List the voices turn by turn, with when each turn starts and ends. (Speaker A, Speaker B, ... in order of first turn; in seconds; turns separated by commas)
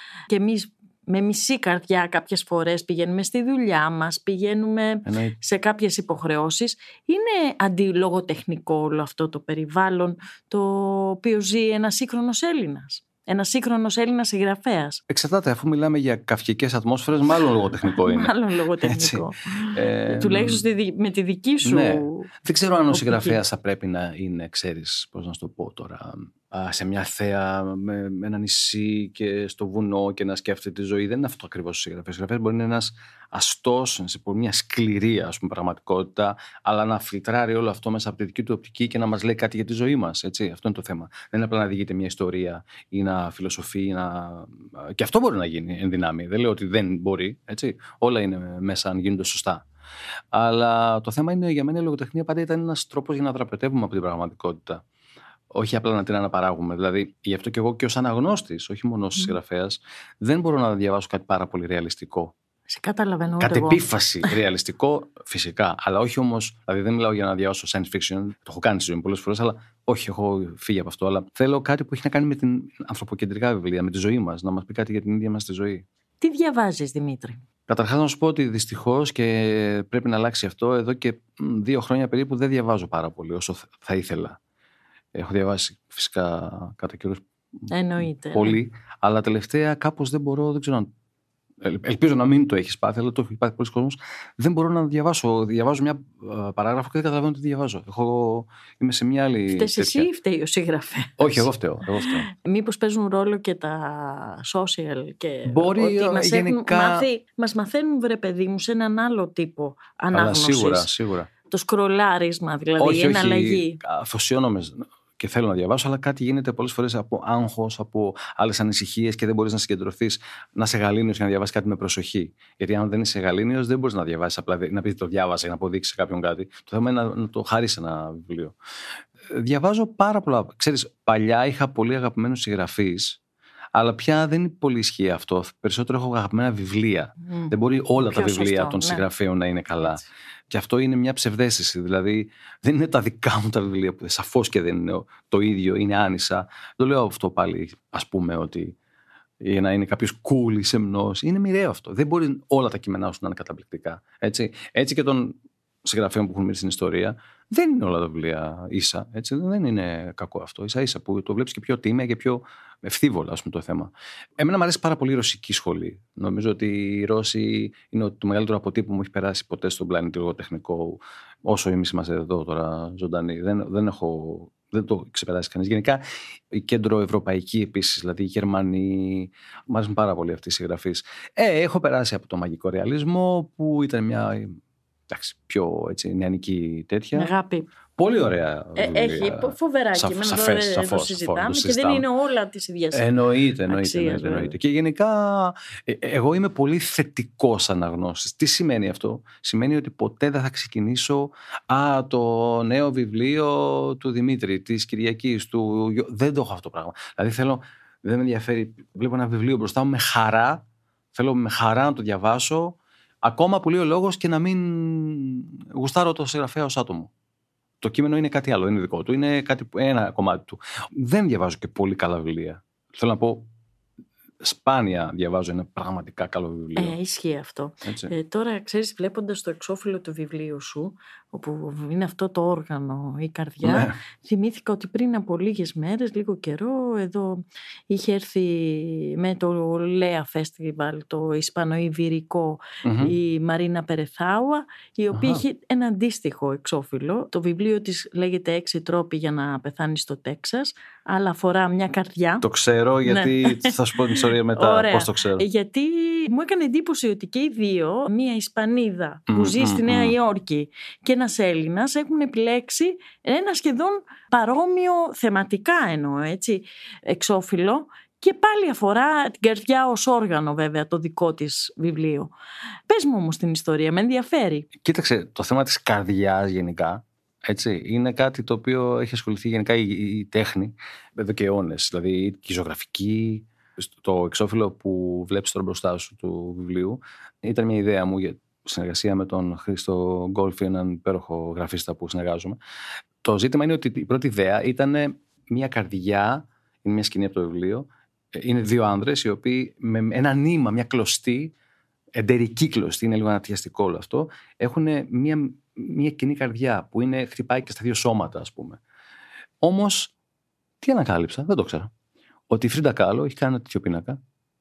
Speaker A: 0.3-15.0, Speaker B: 5.1-5.4, Speaker B: 15.1-20.6, Speaker A: 17.9-22.3, Speaker B: 21.6-49.7, Speaker A: 22.9-23.4, Speaker B: 50.3-54.8, Speaker B: 55.5-62.3, Speaker A: 62.7-64.3, Speaker B: 63.4-75.8, Speaker A: 76.2-77.4, Speaker B: 77.7-84.4, Speaker B: 85.2-90.9, Speaker A: 87.7-88.6, Speaker B: 91.6-100.1, Speaker A: 99.5-101.5, Speaker B: 101.2-102.3, Speaker A: 102.3-110.9, Speaker B: 105.5-107.1, Speaker B: 110.1-111.3, Speaker A: 111.5-113.8, Speaker B: 112.8-128.6, Speaker B: 129.3-133.2, Speaker B: 133.7-148.8, Speaker A: 137.2-139.0, Speaker B: 149.4-184.6, Speaker B: 185.1-187.3, Speaker A: 187.2-187.7, Speaker B: 188.0-192.1, Speaker A: 188.8-193.1, Speaker B: 192.9-210.6, Speaker A: 193.7-194.6, Speaker B: 211.2-217.1, Speaker B: 217.8-223.5, Speaker B: 224.4-226.9, Speaker A: 226.8-252.4, Speaker B: 227.8-228.1, Speaker B: 233.6-233.9, Speaker B: 242.8-243.2, Speaker B: 245.1-245.4, Speaker B: 252.4-255.4, Speaker A: 253.1-272.3, Speaker B: 259.3-260.1, Speaker A: 272.9-274.7, Speaker B: 274.8-292.6, Speaker B: 293.2-301.5, Speaker B: 302.1-308.8, Speaker B: 309.6-310.1, Speaker B: 310.8-311.9, Speaker B: 312.5-314.2